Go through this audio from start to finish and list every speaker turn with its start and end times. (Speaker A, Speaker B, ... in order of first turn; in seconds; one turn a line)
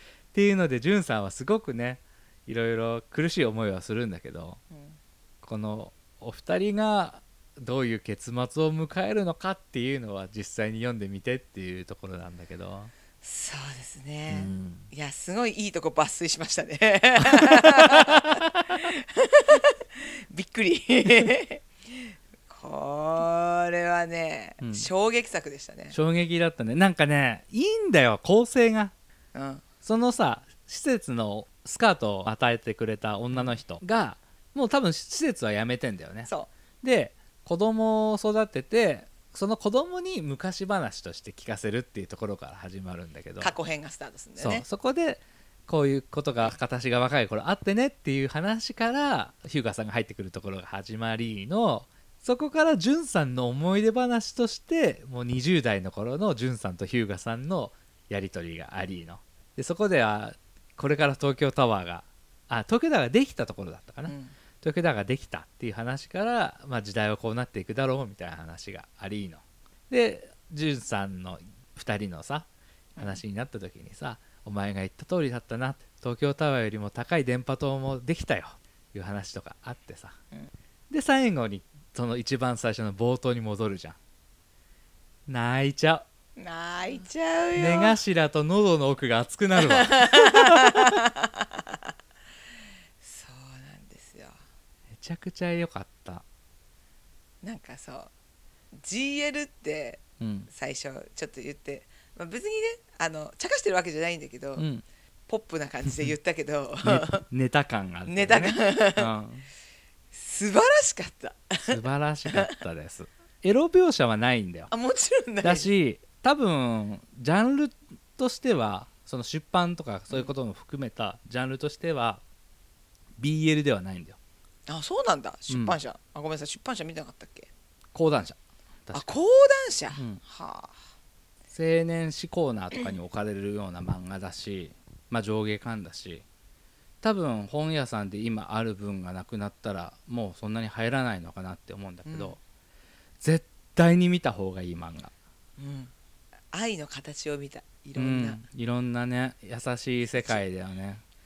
Speaker A: 0.3-4.6
Speaker B: 4.7-5.0
Speaker A: 5.4-12.9
Speaker B: 13.2-26.0
Speaker A: 14.3-14.9
Speaker A: 17.2-18.6
Speaker A: 24.6-24.9
Speaker A: 25.9-28.9
Speaker B: 29.3-29.6
Speaker A: 29.8-36.3
Speaker B: 36.2-36.5
Speaker A: 36.8-43.5
Speaker B: 43.4-44.7
Speaker A: 44.4-80.2
Speaker B: 64.1-64.3
Speaker A: 80.9-84.0
Speaker A: 85.3-86.0
Speaker B: 86.4-88.0
Speaker A: 87.6-91.0
Speaker B: 89.6-91.8
Speaker B: 93.0-94.4
Speaker A: 94.9-96.2
Speaker B: 97.4-98.1
Speaker B: 98.8-104.7
Speaker A: 100.2-100.5
Speaker A: 104.6-104.8
Speaker B: 105.3-107.2
Speaker A: 106.8-109.5
Speaker B: 108.1-109.1
Speaker B: 110.1-112.6
Speaker A: 111.6-114.7
Speaker B: 114.7-115.7
Speaker A: 115.4-122.2
Speaker A: 123.2-124.2
Speaker B: 124.7-127.5
Speaker A: 125.5-125.8
Speaker A: 127.9-129.2
Speaker B: 128.9-130.8
Speaker A: 129.9-130.2
Speaker A: 131.5-136.2
Speaker A: 137.0-142.4
Speaker B: 142.1-142.4
Speaker A: 143.2-145.1
Speaker B: 145.6-145.9
Speaker B: 146.5-148.4
Speaker A: 148.0-151.0
Speaker B: 150.1-150.4